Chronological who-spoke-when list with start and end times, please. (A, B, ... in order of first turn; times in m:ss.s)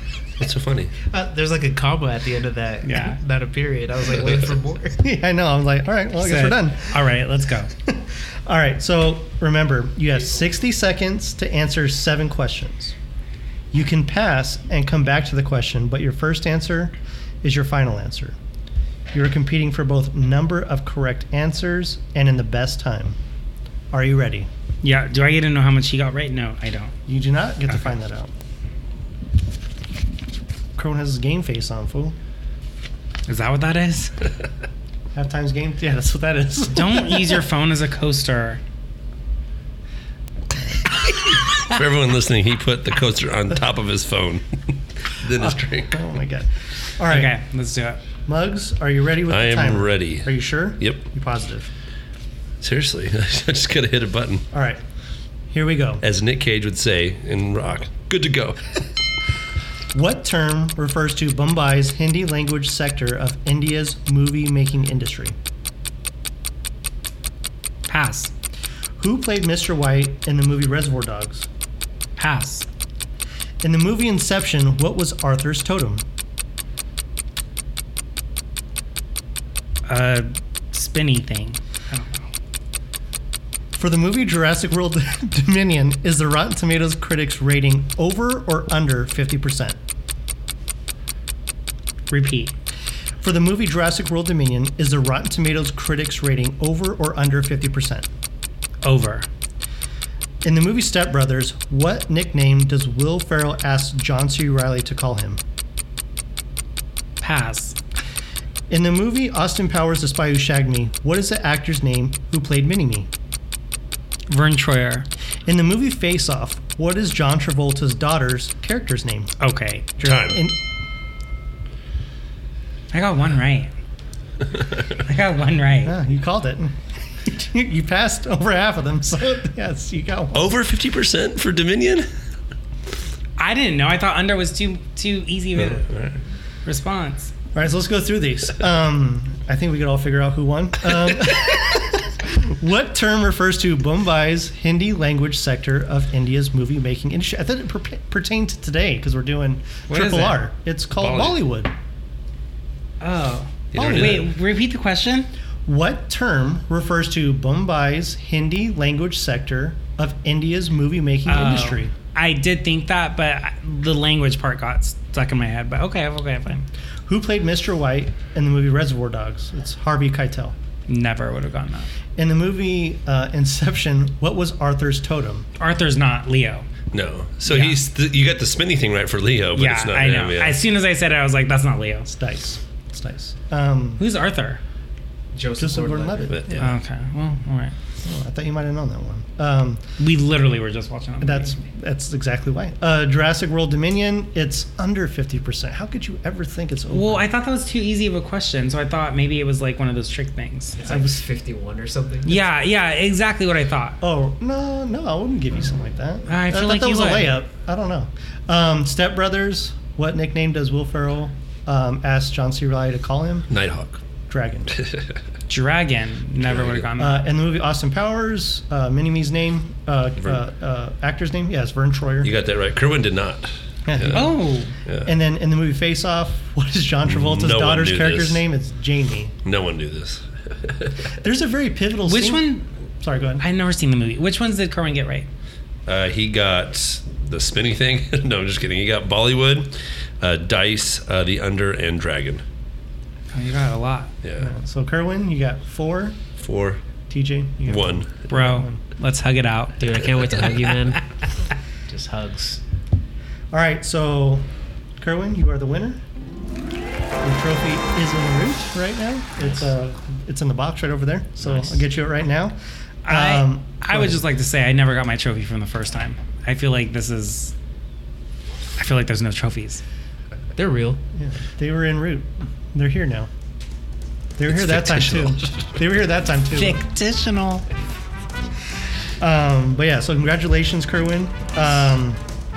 0:00.4-0:00.9 A
0:01.1-0:05.0 B
0:02.8-0:03.2 C
0:05.0-0:06.9 D
0:06.2-0:07.7 C
0:07.9-0:12.9 D
0:13.7-0:18.4 D
0:19.1-0:23.2 D
0:23.9-0:24.5 D
0:24.8-0:26.9 C
0:27.1-0:28.3 D
0:30.8-0:32.2 D
0:33.3-0:34.1 C
0:35.2-0:37.4 D
0:36.7-0:38.6 C
0:41.6-0:46.0 A
0:45.4-0:47.4 D
0:47.1-0:48.0 C
0:48.3-0:51.7 D
0:49.3-0:51.0 A
0:52.6-0:54.4 A
0:54.5-0:54.8 D
0:55.5-0:56.0 D
0:56.0-0:58.7 A
0:59.9-1:05.4 D
1:07.9-1:08.3 C
1:09.0-1:11.5 D
1:12.2-1:12.7 C
1:13.6-1:16.0 D
1:19.9-1:22.2 C
1:23.7-1:29.8 D
1:32.1-1:32.5 C
1:33.2-1:38.1 D
1:38.8-1:39.3 C
1:40.4-1:45.4 D
1:47.2-1:47.8 C
1:48.7-1:53.1 D
1:54.3-1:55.1 C
1:55.5-1:59.3 D
1:59.4-2:00.0 C
2:00.0-2:00.6 D
2:00.0-2:00.4 A
2:02.9-2:03.7 C
2:04.9-2:06.0 C
2:05.8-2:06.7 D
2:07.3-2:10.5 D
2:10.3-2:12.1 A
2:13.4-2:16.0 C
2:15.6-2:16.1 A
2:16.6-2:17.3 C
2:17.5-2:31.7 D
2:29.9-2:30.4 C
2:31.0-2:31.4 A
2:33.0-2:35.3 C
2:33.7-2:34.3 A
2:33.8-2:34.1 D
2:35.7-2:41.9 D
2:41.3-2:46.7 C
2:47.1-2:50.6 D
2:50.9-2:51.9 C
2:52.2-2:55.5 D
2:55.6-2:56.7 C
2:56.9-3:00.6 A
2:57.5-2:57.8 C
2:59.6-3:02.1 C
3:02.1-3:04.0 D
3:04.0-3:04.6 C
3:05.3-3:06.4 B
3:05.6-3:06.7 D
3:06.3-3:06.7 A
3:06.6-3:07.8 C
3:08.0-3:09.8 D
3:10.0-3:11.5 C
3:11.2-3:17.3 D
3:16.9-3:20.8 C
3:20.8-3:22.4 B
3:20.8-3:21.1 D
3:22.2-3:24.0 C
3:24.0-3:33.5 D
3:26.3-3:27.4 C
3:33.5-3:34.0 A
3:34.3-3:34.8 D
3:34.8-3:35.1 A
3:35.5-3:37.2 C
3:36.5-3:36.8 A
3:37.0-3:42.3 D
3:42.2-3:45.1 A
3:43.9-3:44.3 D
3:44.1-3:44.8 C
3:45.0-3:49.4 D
3:47.1-3:48.4 A
3:49.4-3:51.1 A
3:51.2-3:53.4 D
3:52.0-3:52.7 C
3:53.4-3:55.3 C
3:55.9-4:02.4 A
4:03.3-4:04.1 C
4:04.2-4:04.5 A
4:04.4-4:06.2 D
4:06.4-4:06.9 A
4:07.1-4:08.8 D
4:07.7-4:08.4 A
4:08.3-4:09.8 C
4:09.8-4:11.0 B
4:11.9-4:12.6 B
4:13.5-4:14.5 D
4:15.0-4:16.0 D
4:17.2-4:24.2 D
4:21.4-4:21.8 B
4:23.0-4:27.6 C
4:28.8-4:29.8 C
4:30.6-4:31.0 B
4:31.2-4:33.3 D
4:34.4-4:36.8 D
4:34.5-4:35.6 A
4:36.5-4:37.7 C
4:39.2-4:42.2 D